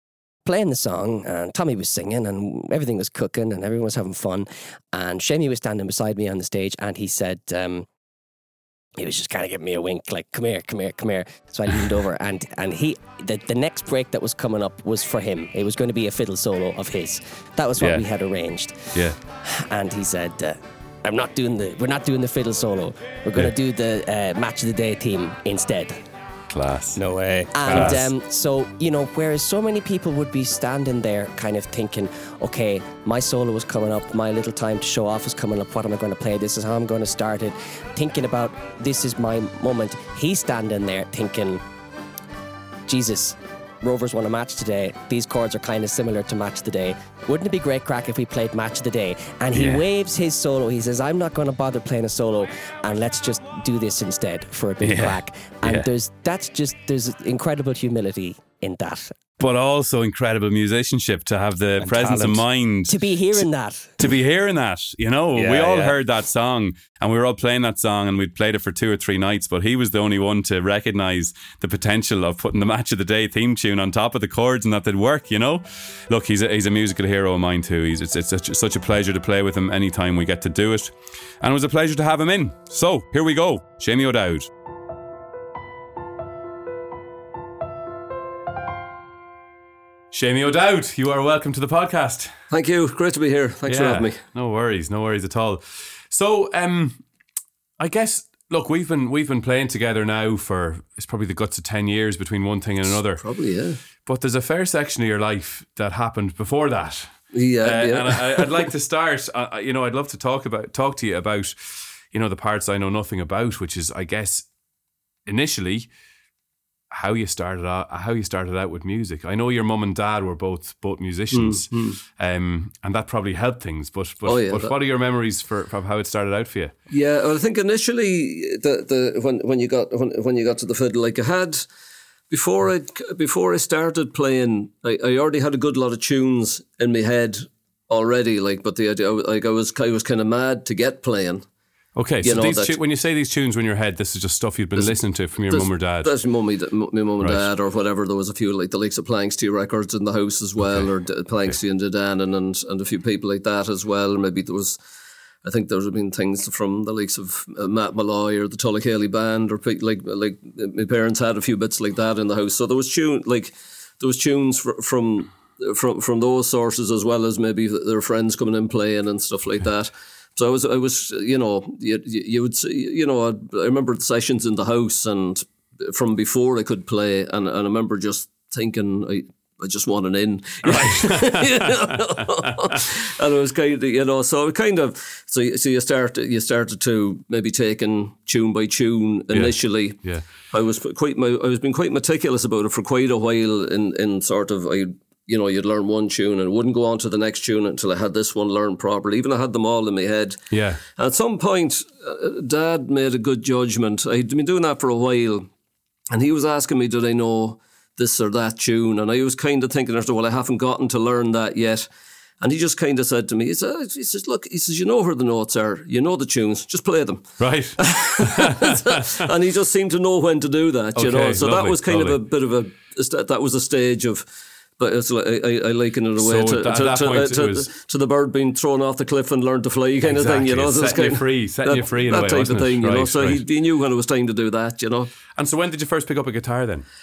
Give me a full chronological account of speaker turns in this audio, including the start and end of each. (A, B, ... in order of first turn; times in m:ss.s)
0:00.4-0:07.9 A
0:09.0-0:26.0 A
0:17.8-0:18.0 B
0:26.5-0:27.0 B
0:26.9-0:28.0 C
0:27.5-0:41.6 A
0:27.7-0:28.1 B
0:42.9-0:59.2 A
0:49.5-0:49.8 B
0:54.8-0:55.9 B
0:59.4-1:03.4 B
1:01.8-1:02.4 C
1:02.9-1:04.0 A
1:04.0-1:24.5 B
1:05.3-1:06.0 C
1:30.1-1:32.4 B
1:32.5-1:34.2 D
1:33.7-1:37.0 B
1:37.8-1:43.2 B
1:43.2-1:43.8 D
1:44.0-1:54.5 B
1:47.3-1:48.6 D
1:55.2-1:55.9 B
1:56.9-2:06.7 B
2:01.3-2:02.0 D
2:04.2-2:04.7 D
2:06.9-2:11.6 D
2:12.3-2:21.4 D
2:22.0-2:26.1 B
2:22.2-2:22.8 D
2:25.5-2:34.8 D
2:27.2-2:27.5 B
2:30.6-2:30.9 B
2:35.4-3:25.5 D
3:00.6-3:02.8 B
3:09.3-3:10.2 B
3:20.5-3:20.8 B
3:26.1-3:31.8 D
3:32.4-3:44.2 D
3:37.4-3:39.3 B
3:41.0-3:42.2 B
3:44.8-3:55.1 D
3:46.2-3:47.7 B
3:50.0-3:53.4 B
3:55.3-3:56.8 B